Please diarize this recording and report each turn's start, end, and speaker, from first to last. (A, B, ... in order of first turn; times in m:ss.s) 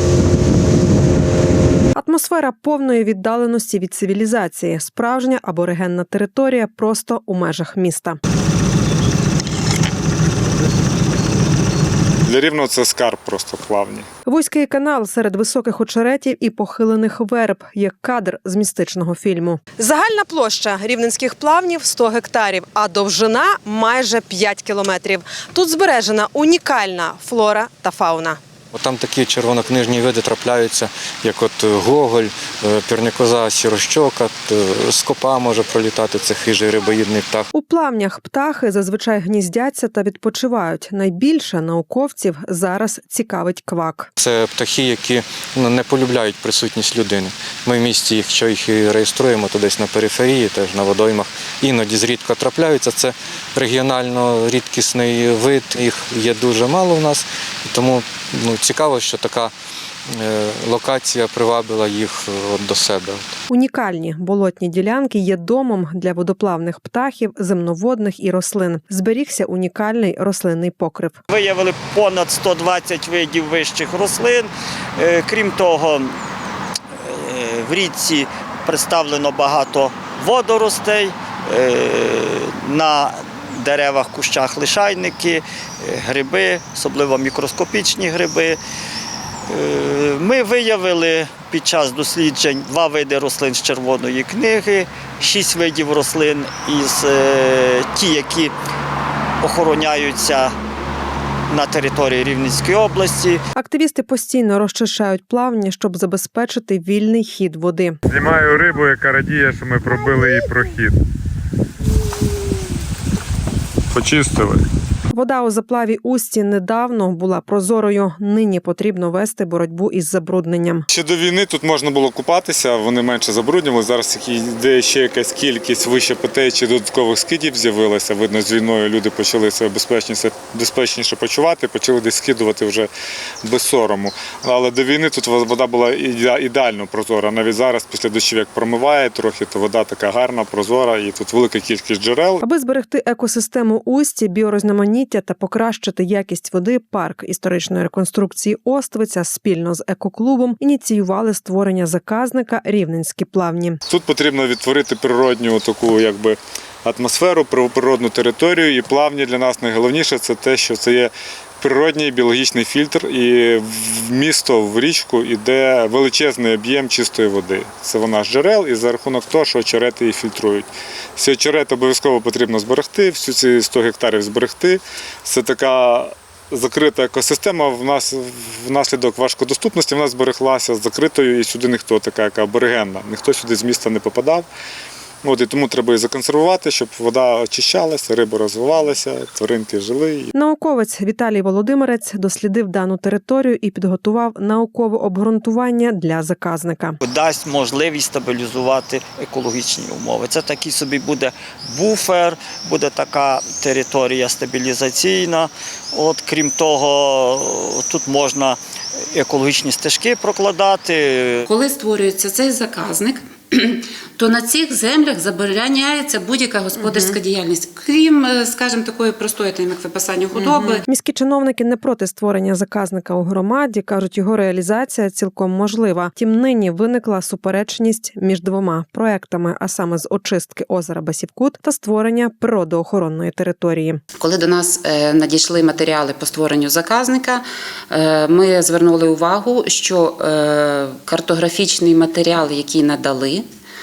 0:02.0-0:08.2 A
0:12.2-0:14.0 B
0:14.2-0:28.4 A
0:28.7-0:37.5 C
0:37.5-0:44.1 A
0:44.2-0:59.5 C
1:00.1-1:03.3 C
1:03.5-1:11.2 A
1:11.3-1:16.1 D
1:17.0-1:28.6 D
1:29.5-1:38.5 D
1:39.4-1:40.5 D
1:41.5-1:43.4 D
1:43.6-1:48.0 A
1:48.1-1:51.0 B
1:53.9-1:54.6 B
1:55.1-2:00.9 A
2:00.9-2:12.9 B
2:13.4-2:22.4 B
2:22.4-2:33.8 A
2:33.9-3:04.5 B
3:05.2-3:10.3 B
3:10.3-3:17.0 A
3:17.0-3:28.6 D
3:29.1-3:31.5 D
3:31.4-3:40.8 E
3:36.8-3:37.1 A
3:40.3-3:54.0 A
3:54.2-4:03.4 E